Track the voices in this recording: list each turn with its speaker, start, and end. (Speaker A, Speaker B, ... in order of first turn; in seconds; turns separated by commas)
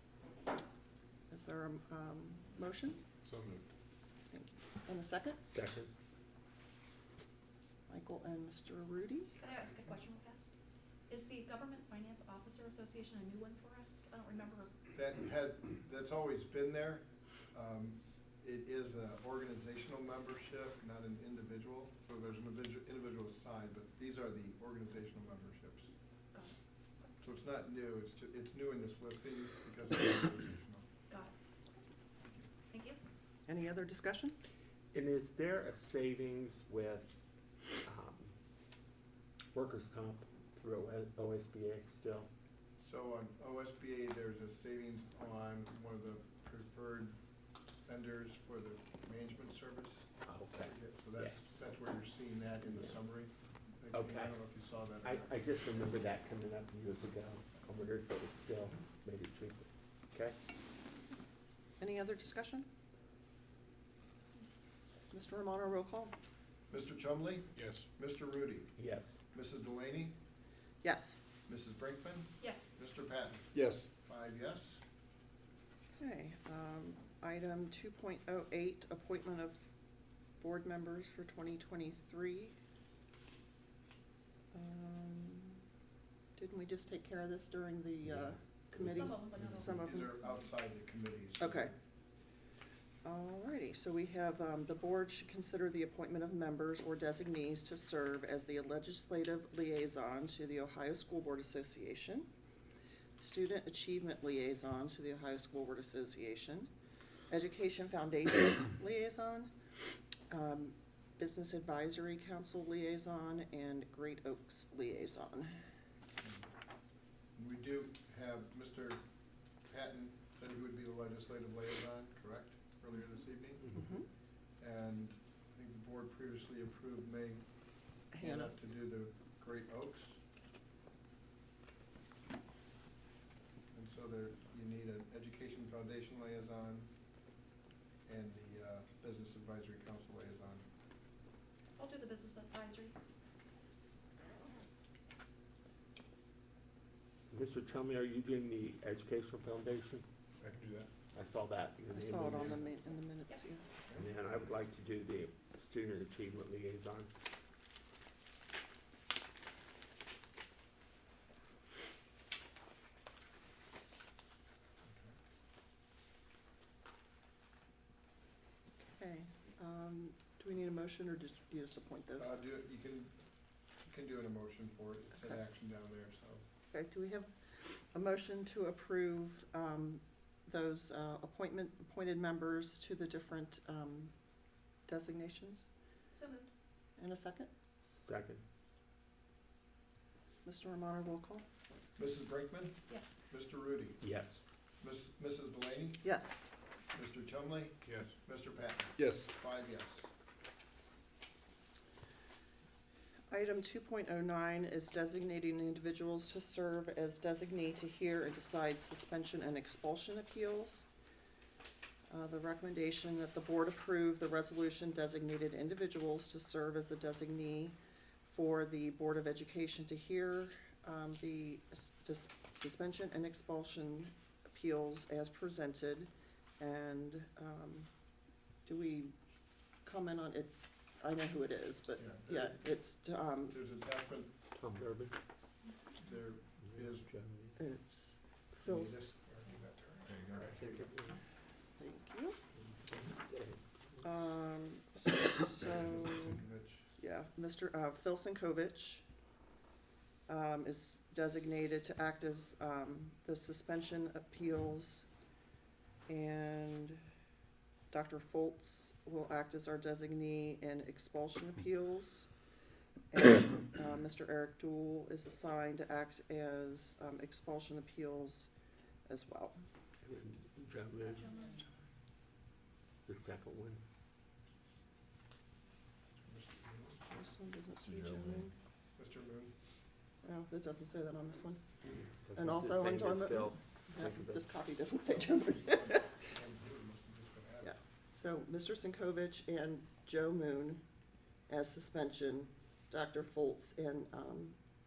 Speaker A: 1.3-3.0, Speaker B: 3.2-3.6, Speaker A: 4.3-5.4, Speaker C: 5.5-5.9, Speaker A: 7.9-9.3, Speaker D: 9.4-10.5, Speaker D: 11.1-14.7, Speaker E: 14.9-25.9, Speaker D: 26.3-27.1, Speaker E: 27.2-30.9, Speaker D: 31.1-31.3, Speaker E: 32.2-32.5, Speaker D: 32.7-33.0, Speaker A: 33.5-34.4, Speaker C: 34.9-37.1, Speaker C: 37.8-38.3, Speaker C: 39.5-42.3, Speaker E: 42.8-47.2, Speaker E: 47.9-55.3, Speaker C: 50.2-51.4, Speaker C: 53.9-54.4, Speaker C: 55.0-60.4, Speaker A: 61.8-62.7, Speaker A: 65.1-66.1, Speaker E: 66.7-68.7, Speaker B: 67.5-67.9, Speaker C: 68.8-69.2, Speaker E: 69.3-70.2, Speaker A: 70.8-71.2, Speaker E: 71.5-73.5, Speaker D: 72.4-72.7, Speaker B: 73.5-73.9, Speaker E: 74.0-74.8, Speaker A: 76.0-79.6, Speaker A: 80.4-82.5, Speaker A: 84.5-85.6, Speaker A: 86.3-90.2, Speaker D: 88.8-90.3, Speaker E: 89.6-91.7, Speaker A: 91.4-91.7, Speaker A: 93.0-102.3, Speaker A: 103.2-106.7, Speaker A: 107.3-109.5, Speaker A: 110.3-115.6, Speaker E: 116.2-116.5, Speaker E: 117.3-119.0, Speaker E: 119.7-123.8, Speaker A: 123.7-124.0, Speaker E: 124.6-127.5, Speaker E: 128.1-130.2, Speaker A: 128.1-128.5, Speaker E: 133.7-136.9, Speaker E: 138.1-140.6, Speaker D: 141.8-142.9, Speaker C: 147.3-150.0, Speaker B: 150.4-150.9, Speaker C: 151.1-152.7, Speaker A: 151.9-153.7, Speaker C: 153.9-157.1, Speaker E: 164.8-165.2, Speaker A: 168.9-172.4, Speaker E: 172.2-173.1, Speaker E: 173.8-176.4, Speaker A: 176.7-184.1, Speaker A: 184.8-185.7, Speaker D: 186.1-186.5, Speaker A: 187.0-187.5, Speaker C: 187.9-188.4, Speaker A: 190.4-191.4, Speaker E: 192.0-194.0, Speaker D: 192.9-193.1, Speaker C: 194.0-194.4, Speaker E: 194.8-196.1, Speaker A: 196.0-196.3, Speaker E: 196.9-200.1, Speaker B: 199.0-199.3, Speaker A: 203.3-210.9, Speaker A: 212.1-227.9, Speaker A: 228.6-229.1, Speaker A: 229.8-233.6, Speaker E: 232.0-232.6, Speaker E: 233.5-234.5, Speaker C: 234.5-235.1, Speaker D: 235.6-235.9, Speaker E: 236.0-237.1, Speaker C: 236.6-237.6, Speaker A: 237.6-238.9, Speaker E: 238.6-240.6, Speaker B: 240.1-240.5, Speaker C: 240.4-241.2, Speaker A: 241.8-242.4, Speaker C: 242.9-244.0, Speaker A: 244.0-246.3, Speaker E: 245.7-246.9, Speaker A: 247.0-249.0, Speaker A: 250.3-255.1, Speaker A: 256.1-257.0, Speaker A: 257.9-262.3, Speaker A: 263.1-268.5, Speaker A: 269.1-269.6, Speaker C: 270.0-271.3, Speaker D: 271.2-271.6, Speaker C: 273.1-273.8, Speaker E: 276.2-277.1, Speaker A: 277.1-278.5, Speaker B: 277.8-278.4, Speaker E: 278.9-279.5, Speaker A: 280.2-281.6, Speaker C: 281.9-284.5, Speaker A: 282.3-286.2, Speaker E: 285.7-287.7, Speaker A: 287.6-290.8, Speaker A: 291.5-294.6